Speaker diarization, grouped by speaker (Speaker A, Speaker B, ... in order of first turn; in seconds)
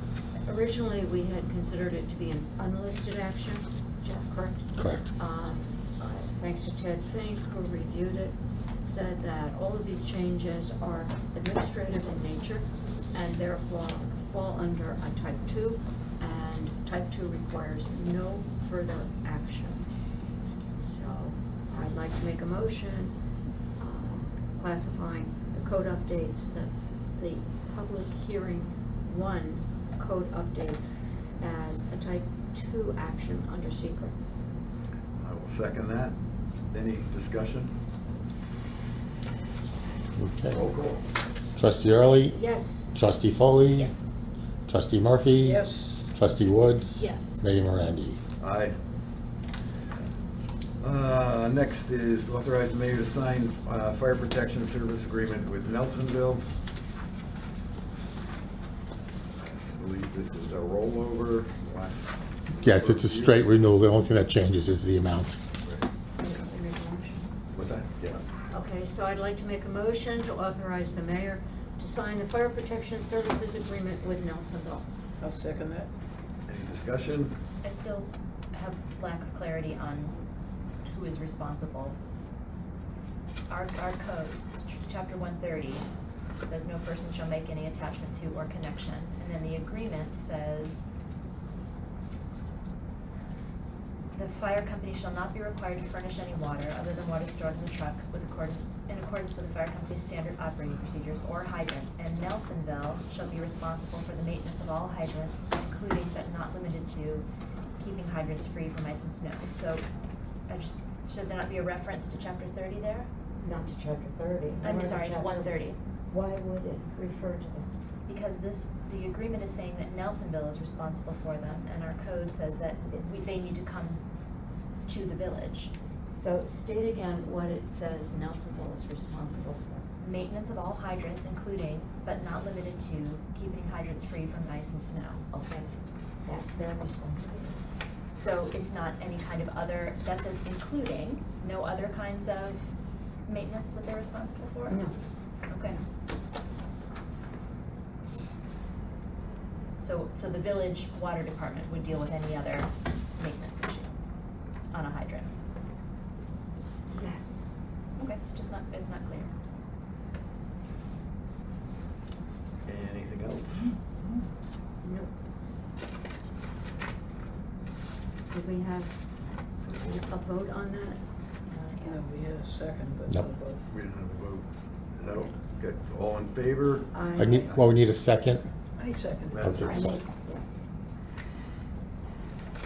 Speaker A: 0.5-19.9, 20.8-23.1, 23.8-34.1, 42.3-42.9, 66.2-67.3, 68.5-74.8, 113.4-115.5, 116.1-117.7, 122.9-123.3, 125.9-129.9, 136.2-137.6, 144.7-144.9, 156.9-157.4, 164.8-165.1, 168.3-168.9, 169.9-171.0, 176.9-177.6, 179.7-180.4
Speaker B: 4.8-5.1, 40.2-40.6, 41.6-42.4, 42.9-43.9, 44.7-48.2, 62.6-65.4, 177.2-178.4, 179.4-180.0
Speaker C: 35.2-36.2, 36.7-37.7, 40.5-41.1, 48.4-48.8, 50.8-56.5, 59.5-63.4, 67.5-68.2, 76.5-77.3, 162.7-163.7, 169.6-170.2, 173.7-176.9, 179.3-179.8
Speaker D: 43.8-44.1, 77.6-80.2, 80.8-82.0, 83.5-85.9, 86.4-90.9, 94.1-107.3, 107.8-109.8, 110.5-113.1, 114.6-115.8, 118.1-124.0, 124.9-125.7, 130.0-135.7, 138.1-142.7, 143.3-144.8, 145.5-145.8, 149.8-153.9, 154.7-155.3, 158.0-159.3, 171.5-172.0
Speaker E: 45.4-46.0, 75.2-75.9, 171.8-173.6, 178.8-179.9